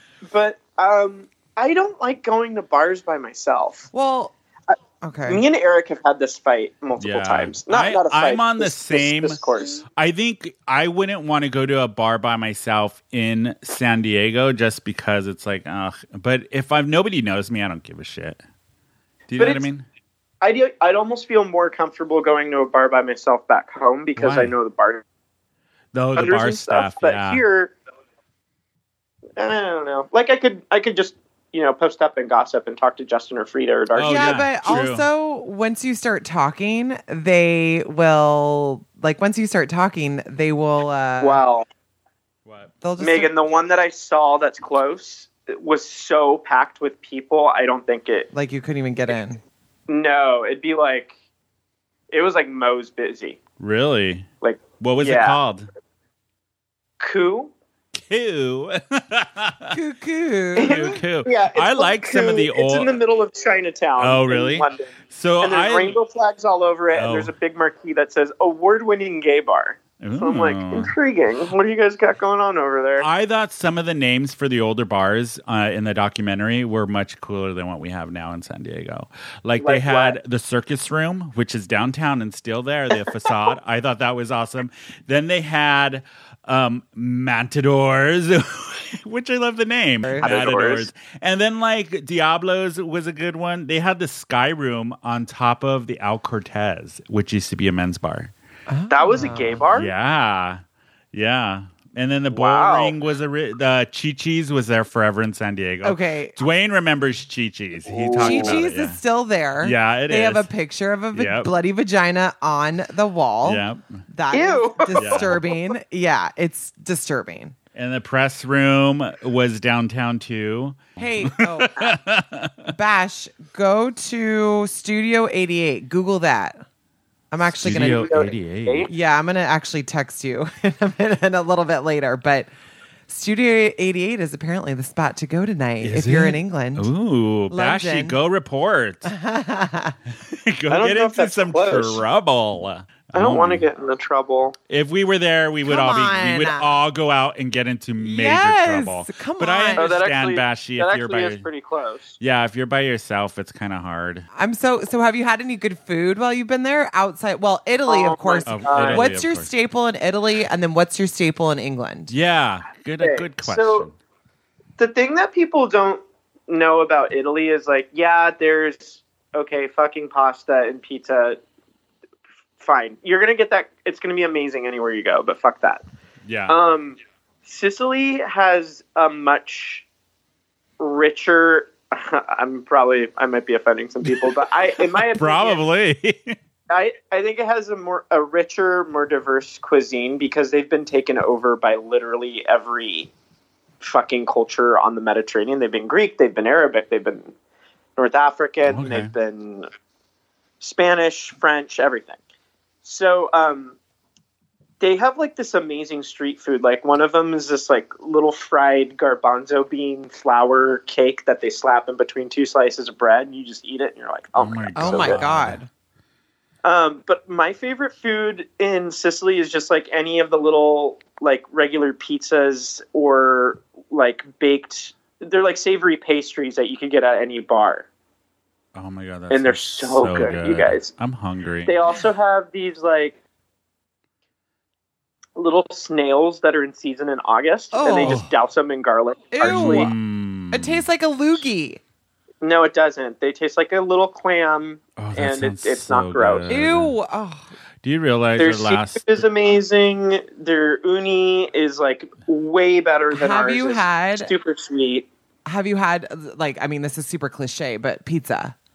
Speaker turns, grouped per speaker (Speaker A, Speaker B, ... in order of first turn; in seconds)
Speaker A: 0.3-3.9, 5.3-9.8, 19.4-19.6, 20.4-25.0, 26.1-27.7, 29.4-34.5, 41.2-41.6, 43.0-48.3, 49.9-51.1, 52.1-53.4, 54.4-55.4, 57.0-57.5, 60.6-73.1, 79.6-80.2, 90.2-90.9, 98.9-99.9, 102.3-102.9, 107.8-108.6, 114.3-115.3, 127.6-128.9, 140.7-142.0, 143.1-144.6, 149.8-152.2, 157.9-159.0, 163.0-163.9, 164.8-171.4, 172.6-175.8, 176.5-179.8, 180.8-185.6, 186.7-193.1, 193.8-197.3, 198.0-199.7, 200.6-202.2, 202.8-203.8, 204.8-215.2, 216.6-227.9, 229.3-230.9, 231.7-233.2, 235.3-239.9, 242.4-246.5, 248.4-255.1
Speaker B: 3.9-4.3, 5.0-5.4, 34.0-41.4, 42.8-43.3, 48.3-49.4, 59.7-61.0, 90.0-90.3, 98.7-99.6, 105.8-106.3, 108.2-117.5, 121.0-122.0, 122.7-126.6, 127.3-128.1, 128.9-132.5, 133.1-136.9, 137.5-138.2, 139.0-139.9, 145.7-146.7, 148.0-149.9, 154.3-162.1, 214.8-215.7, 237.7-238.2, 239.3-239.9, 240.5-241.8, 246.5-247.4, 253.1-254.3, 255.4-258.6
Speaker C: 7.0-9.4, 9.9-18.4, 19.3-19.9, 24.1-24.5, 25.9-27.4, 33.9-35.0, 42.5-42.7, 53.6-54.3, 54.8-55.7, 57.9-59.8, 60.6-62.9, 64.0-66.0, 66.9-67.3, 70.0-70.9, 73.0-98.3, 99.7-100.6, 101.1-109.0, 109.6-110.5, 111.1-111.5, 113.4-114.0, 115.0-115.3, 117.7-122.7, 127.5-128.9, 135.8-139.1, 140.2-143.7, 144.7-151.4, 152.2-154.2, 158.4-159.5, 162.1-163.9, 176.2-176.6, 184.9-186.3, 198.7-199.1, 214.3-215.6, 228.7-231.8, 238.0-238.3, 239.4-240.8, 245.0-246.9, 247.8-249.2